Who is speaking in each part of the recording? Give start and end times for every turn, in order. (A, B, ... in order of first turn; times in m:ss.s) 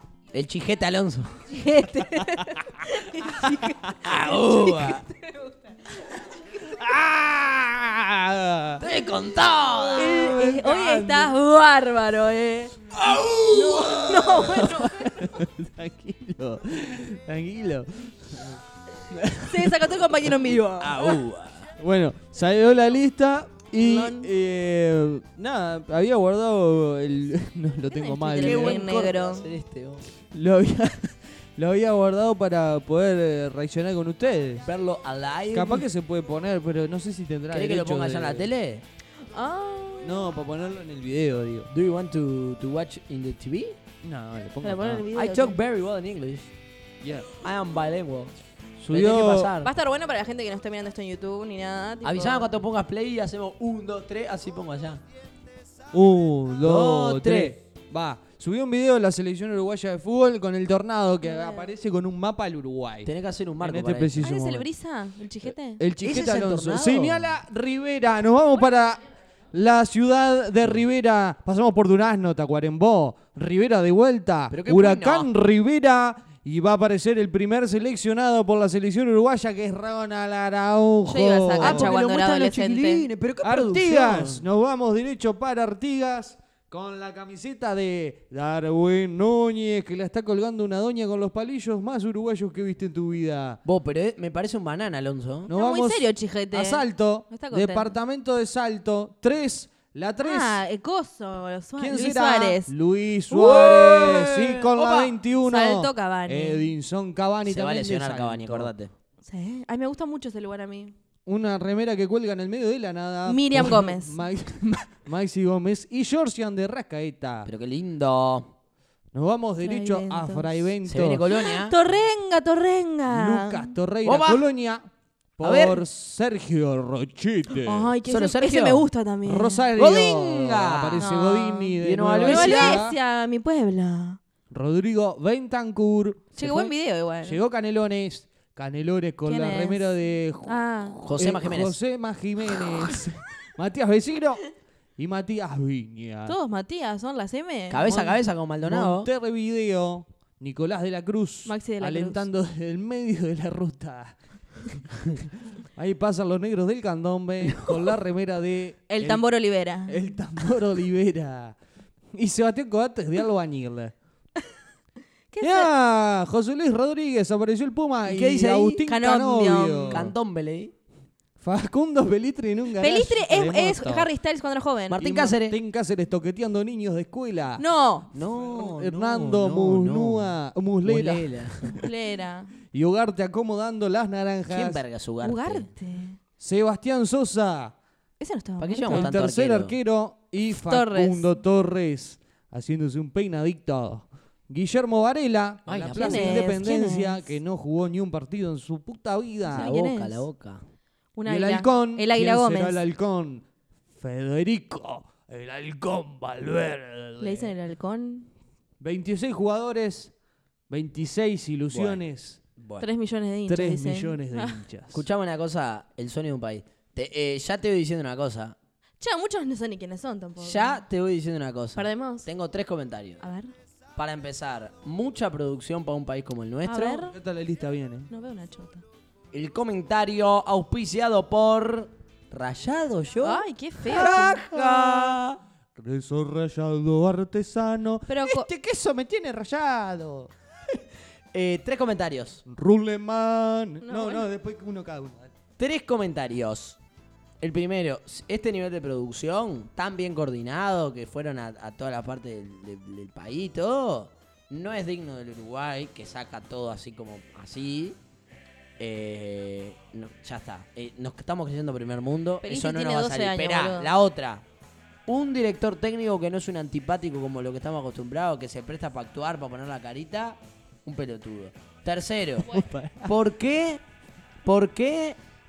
0:00.3-0:01.5 A
0:01.5-0:06.3 B
0:02.2-0:02.6 C
0:03.4-0:03.9 C
0:04.0-0:05.1 A
0:06.5-0:08.8 C
0:08.8-0:10.4 A
0:10.0-0:12.8 B
0:10.0-0:11.3 C
0:12.9-0:14.4 A
0:13.5-0:15.4 B
0:14.2-0:19.8 C
0:19.5-0:21.2 B
0:20.8-0:21.7 A
0:21.8-0:28.8 C
0:23.8-0:24.3 B
0:27.9-0:29.5 B
0:28.4-0:30.1 A
0:30.2-0:34.7 C
0:34.6-0:35.9 A
0:35.5-0:38.5 C
0:37.5-0:38.8 A
0:39.2-0:40.3 B
0:40.0-0:41.7 C
0:41.7-0:43.8 A
0:44.0-0:45.1 C
0:44.6-0:45.6 B
0:45.1-0:46.5 A
0:47.0-0:47.3 C
0:47.3-0:48.4 A
0:48.8-0:49.5 C
0:48.9-0:49.7 A
0:49.6-0:52.5 B
0:52.0-0:55.0 A
0:55.9-1:04.7 C
0:56.6-0:57.6 A
1:01.2-1:01.7 B
1:03.0-1:04.3 A
1:04.2-1:05.8 B
1:05.5-1:22.0 C
1:06.0-1:07.4 A
1:14.5-1:15.3 A
1:21.1-1:23.0 B
1:21.6-1:24.4 A
1:23.4-1:33.6 C
1:33.6-1:35.5 A
1:35.5-1:40.6 C
1:35.5-1:37.9 B
1:40.2-1:42.7 B
1:41.8-1:48.7 C
1:43.3-1:45.2 A
1:45.4-1:46.7 B
1:47.4-1:48.9 A
1:49.2-1:51.0 B
1:51.3-1:57.5 C
1:53.3-1:54.2 B
1:57.4-1:58.5 A
1:59.1-2:01.2 C
1:59.6-2:00.6 B
2:00.8-2:01.8 A
2:01.3-2:03.8 B
2:03.1-2:07.9 C
2:04.0-2:04.4 A
2:05.4-2:05.8 A
2:07.5-2:09.7 B
2:08.0-2:08.9 A
2:09.2-2:13.0 C
2:09.8-2:11.1 A
2:11.0-2:14.2 B
2:11.8-2:12.8 A
2:14.5-2:26.4 C
2:16.4-2:17.4 B
2:19.3-2:19.8 B
2:20.5-2:21.0 B
2:21.1-2:21.8 A
2:26.3-2:28.2 B
2:27.7-2:29.1 A
2:28.6-2:39.2 C
2:31.4-2:32.3 B
2:38.9-2:40.0 B
2:39.8-2:41.6 C
2:42.1-2:43.9 C
2:45.3-2:45.7 B
2:45.4-2:50.1 C
2:48.1-2:48.8 A
2:48.9-2:50.1 B
2:49.9-2:50.8 A
2:51.4-2:54.1 C
2:52.8-2:55.0 B
2:54.9-2:55.6 A
2:55.0-2:57.6 C
2:57.6-2:58.1 B
2:58.1-3:01.9 A
2:58.3-3:01.9 C
3:01.8-3:02.6 B
3:02.7-3:04.8 C
3:04.5-3:05.7 A
3:05.2-3:06.2 B
3:06.4-3:07.8 C
3:08.2-3:09.2 B
3:08.6-3:09.8 A
3:08.9-3:19.7 C
3:10.5-3:11.3 B
3:15.7-3:16.5 A
3:15.9-3:17.3 B
3:19.4-3:20.6 A
3:19.5-3:20.3 B
3:21.2-3:22.8 B
3:21.3-3:23.4 C
3:24.0-3:27.5 C
3:27.2-3:28.3 B
3:28.8-3:30.1 C
3:30.7-3:32.4 C
3:31.7-3:32.0 A
3:32.6-3:32.9 A
3:32.8-3:34.6 B
3:33.5-3:35.0 C
3:34.9-3:38.6 A
3:39.0-3:40.8 B
3:40.4-3:43.2 A
3:41.8-3:42.3 B
3:43.2-3:43.5 B
3:44.0-3:47.0 A
3:46.7-3:47.2 B
3:47.0-3:48.1 C
3:48.1-3:48.8 B
3:49.3-3:55.4 A
3:53.2-3:54.4 B
3:53.9-3:55.2 C
3:55.8-4:00.3 C
3:58.1-3:58.5 B
4:01.3-4:02.4 A
4:02.5-4:05.3 C
4:03.8-4:04.2 B
4:05.6-4:06.8 A
4:07.4-4:18.0 A
4:18.8-4:24.4 A
4:22.4-4:23.9 B
4:25.1-4:33.8 A
4:32.4-4:33.1 C
4:34.4-4:35.2 A